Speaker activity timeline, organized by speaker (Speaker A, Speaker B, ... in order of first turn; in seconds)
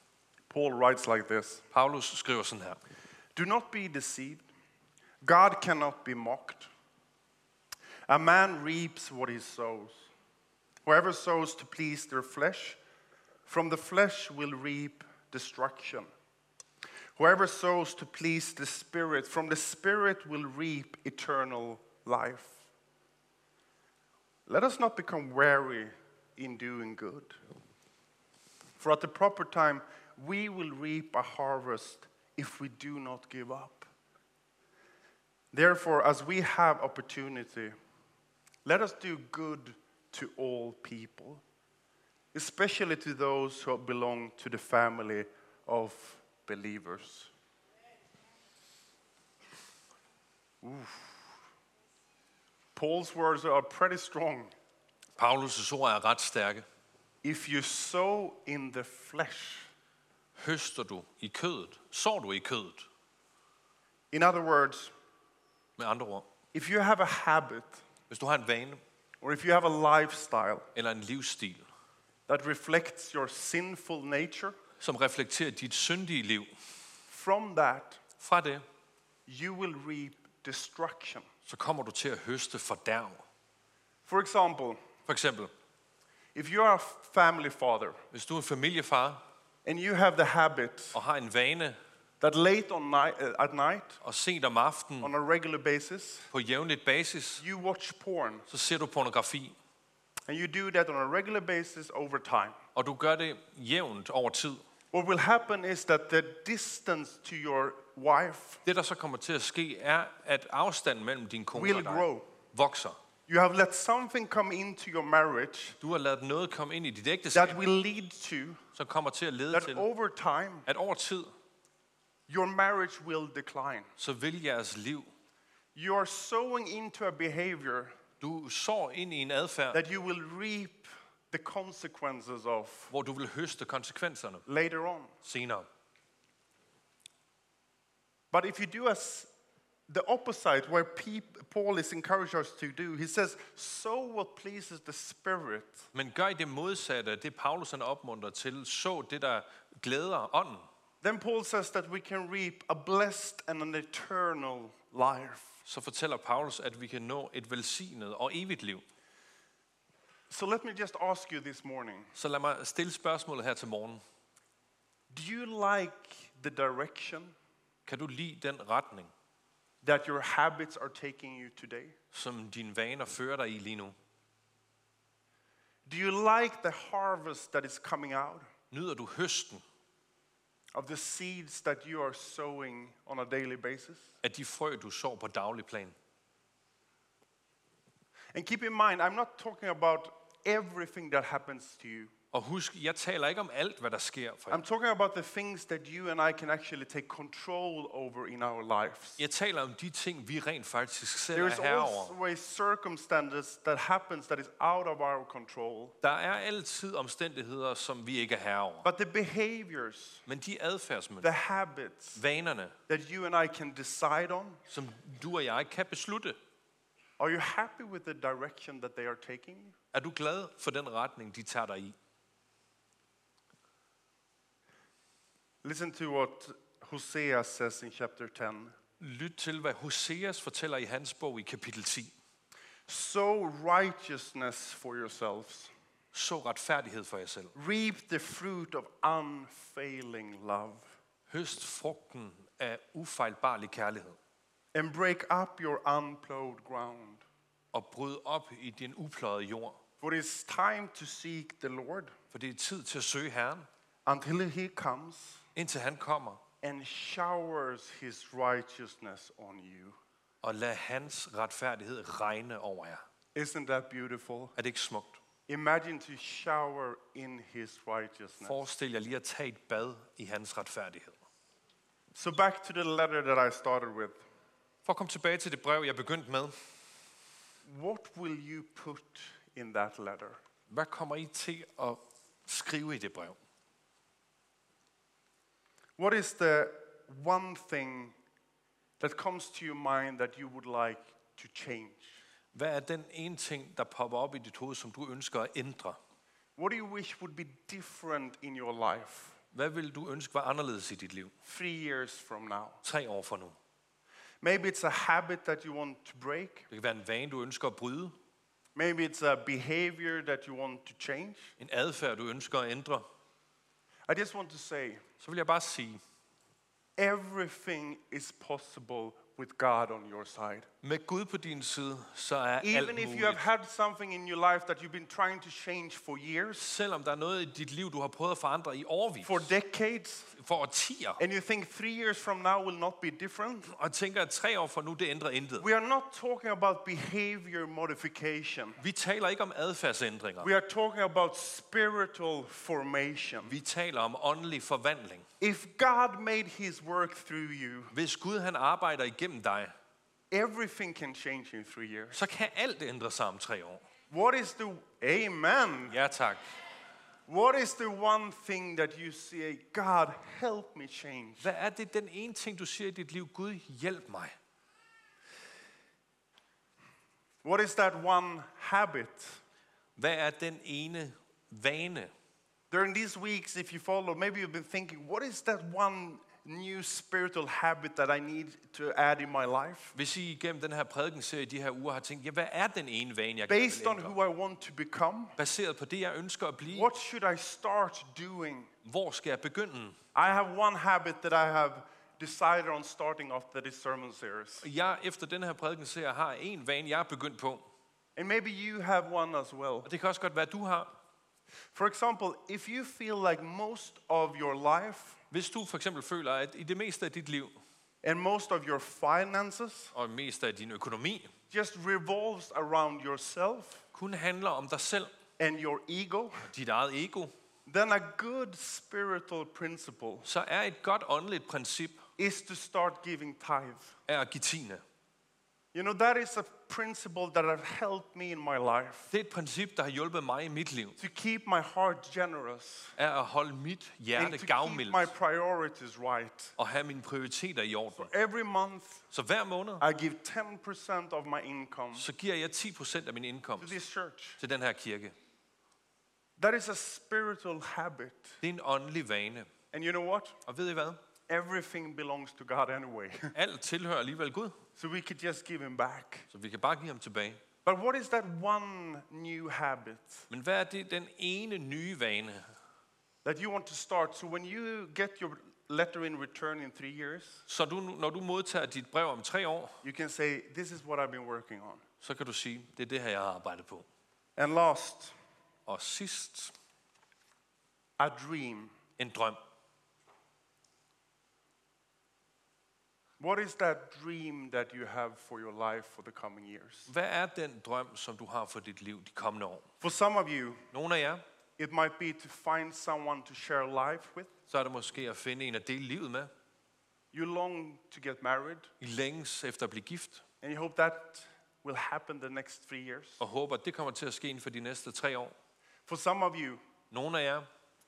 Speaker A: 0.5-1.6, 3.4-4.5, 5.2-6.7, 8.1-10.1, 10.8-12.8, 13.5-16.1, 17.2-22.6, 24.5-27.4, 28.8-33.9, 35.5-37.8, 38.6-41.4, 42.3-47.3, 50.6-51.2, 52.8-54.5, 57.2-59.7, 64.1-64.9, 66.5-67.8, 69.2-70.7, 72.3-74.6, 77.1-78.0, 79.3-81.3, 84.1-84.8, 86.3-88.0, 89.7-91.0, 92.2-94.0, 95.0-96.3, 97.4-98.5, 100.3-102.6, 104.9-108.6, 111.5-112.3, 113.3-115.8, 117.3-118.6, 119.5-120.7, 122.3-123.9, 125.8-128.0, 129.7-132.9, 134.5-135.1, 138.3-139.3, 139.9-145.9, 151.0-155.6, 160.3-162.1, 165.1-167.3, 169.8-171.9, 175.9-178.5, 180.8-184.1, 188.3-192.1, 194.5-199.2, 201.3-206.0, 208.8-210.2, 211.2-212.2, 212.9-214.6, 217.2-219.8, 225.6-228.8, 232.9-235.7, 237.6-241.0, 244.7-247.2, 250.0-252.1, 254.1-255.4, 256.6-260.0, 263.4-264.5, 265.5-268.6, 272.1-274.2, 277.7-280.4, 286.0-288.1, 289.0-292.2, 296.6-299.4, 301.5-302.8, 304.4-306.7, 308.8-311.5, 314.1-315.0, 317.0-320.7, 322.6-326.6, 329.2-330.3, 331.2-333.7, 335.6-338.8, 340.4-343.6, 345.4-347.9, 350.3-352.2, 354.1-356.0, 357.3-361.5, 367.4-369.4, 372.7-379.9, 383.5-385.4, 386.7-388.7, 390.1-394.7, 398.2-399.9, 401.7-405.2, 408.0-409.9, 411.5-413.9, 415.4-416.5, 417.7-420.3, 422.2-423.9, 425.7-429.1, 431.0-432.9, 434.1-436.5, 438.0-439.1, 439.8-442.1, 443.6-444.4, 446.4-448.4, 449.7-450.4, 451.3-453.3, 454.8-456.3, 457.6-460.3, 463.2-467.4, 469.8-471.8, 474.4-475.1, 478.0-478.7, 483.2-486.9, 489.8-490.6, 491.6-494.3, 497.1-498.7, 500.4-503.2, 505.9-506.6
Speaker B: 1.7-2.8, 55.2-56.7, 60.4-62.9, 65.8-66.3, 68.1-68.8, 70.8-71.7, 74.8-76.5, 78.2-78.7, 81.5-83.2, 85.1-85.5, 88.1-89.2, 90.9-91.8, 94.0-95.1, 96.3-97.4, 98.5-99.6, 102.8-104.6, 108.7-113.0, 115.8-117.6, 118.8-119.9, 120.7-121.3, 124.0-125.1, 128.2-129.8, 132.9-134.4, 135.2-135.7, 145.9-150.7, 155.7-158.8, 162.2-164.0, 167.9-169.1, 172.1-174.0, 178.7-179.6, 184.2-185.9, 192.3-194.6, 199.2-202.2, 206.0-208.9, 210.3-211.3, 212.2-212.8, 214.7-216.4, 219.9-221.9, 229.0-232.2, 236.1-237.5, 241.3-244.2, 247.7-249.8, 252.3-253.7, 255.6-256.4, 260.4-263.0, 264.6-265.2, 268.4-271.2, 274.9-276.6, 280.7-283.4, 292.5-296.0, 299.5-301.3, 302.8-303.6, 306.7-308.2, 311.6-313.1, 315.2-316.0, 320.8-323.4, 326.6-329.5, 330.4-331.2, 333.7-335.6, 338.8-340.5, 343.5-345.3, 347.9-349.8, 352.1-353.8, 355.9-356.4, 361.4-364.4, 370.0-372.1, 379.9-384.1, 385.4-386.9, 388.9-390.0, 394.6-397.7, 399.9-401.0, 405.3-407.6, 409.9-411.3, 413.9-415.1, 416.5-417.3, 420.2-422.0, 424.1-424.8, 429.1-431.0, 433.0-435.1, 436.6-438.1, 439.1-439.8, 441.9-443.8, 444.4-445.1, 448.4-449.5, 450.5-451.0, 453.3-454.6, 456.3-457.4, 460.3-462.5, 467.5-469.8, 472.0-473.9, 475.7-476.5, 479.0-479.4, 486.9-489.7, 490.7-491.2, 494.5-496.3, 498.8-500.2, 503.2-505.4, 506.9-507.5